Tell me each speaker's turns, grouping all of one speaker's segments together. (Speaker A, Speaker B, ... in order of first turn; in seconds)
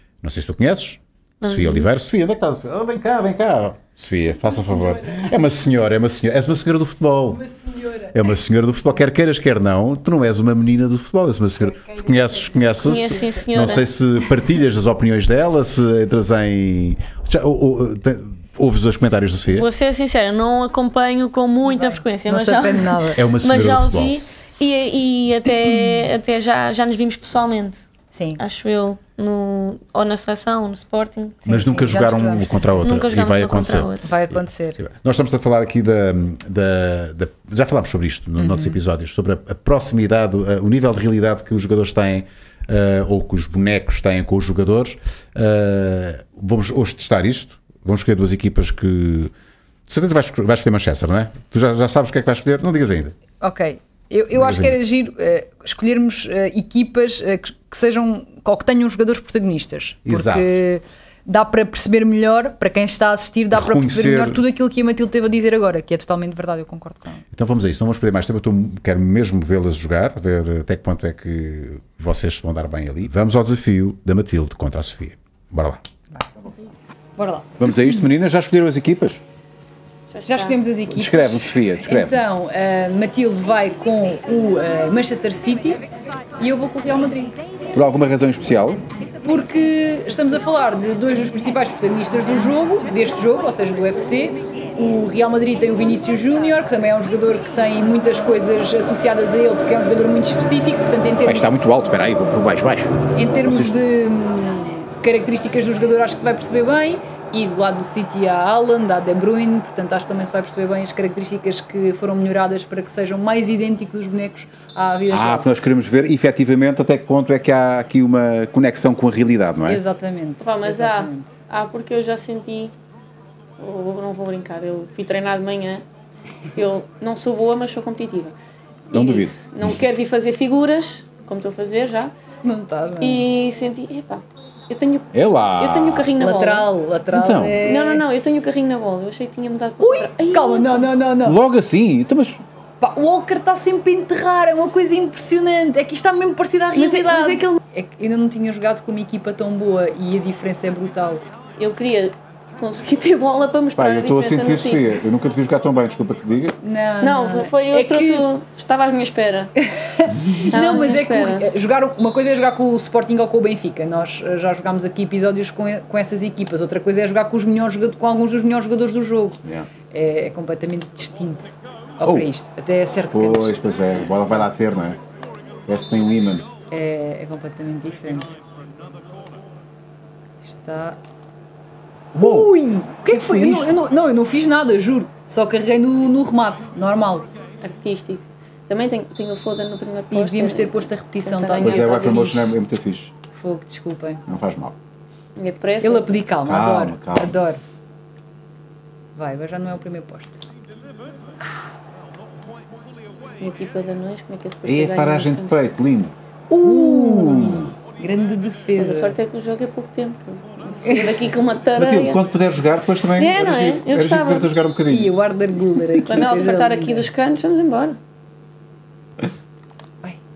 Speaker A: 0.2-19.7, 23.1-24.1, 31.5-34.0, 34.8-49.3, 49.9-53.1, 54.3-54.8, 60.0-60.5, 63.5-64.4, 67.3-75.8, 77.6-79.2, 80.9-82.2, 87.7-88.8, 101.2-103.8, 115.1-119.8, 128.9-129.8, 135.1-136.1, 137.1-137.6, 141.2-142.4, 153.8-156.6, 169.4-169.7, 172.0-172.3, 173.1-175.0, 175.7-176.5, 182.1-182.5, 183.1-183.8, 191.6-193.1, 194.3-194.7, 196.4-197.4, 204.6-207.7, 211.8-215.1
Speaker B: 1.4-2.0, 12.8-13.8, 19.5-27.8, 28.4-31.4, 32.8-34.0, 80.1-80.6, 120.4-122.7, 123.6-125.8, 126.5-128.3, 128.9-132.1, 133.0-136.7, 137.6-140.9, 146.7-147.6, 151.6-155.0, 157.0-159.5, 160.5-161.5, 187.6-192.3, 195.3-196.3, 203.4-205.6, 208.7-212.2, 213.1-214.5, 216.0-218.0
Speaker C: 21.6-23.2, 28.1-28.4, 31.4-32.8, 34.0-34.8, 38.4-38.8, 53.4-67.2, 77.2-77.7, 80.3-85.8, 86.4-87.3, 89.2-101.5, 103.2-115.5, 119.6-121.3, 132.4-133.2, 136.2-138.1, 139.8-141.4, 142.8-151.2, 156.6-158.3, 159.6-169.4, 169.9-173.6, 176.7-178.3, 180.4-181.0, 182.2-187.3, 190.1-192.6, 193.3-194.2, 195.8-197.6, 199.2-200.4, 206.5-209.2, 210.9-211.2, 214.8-217.1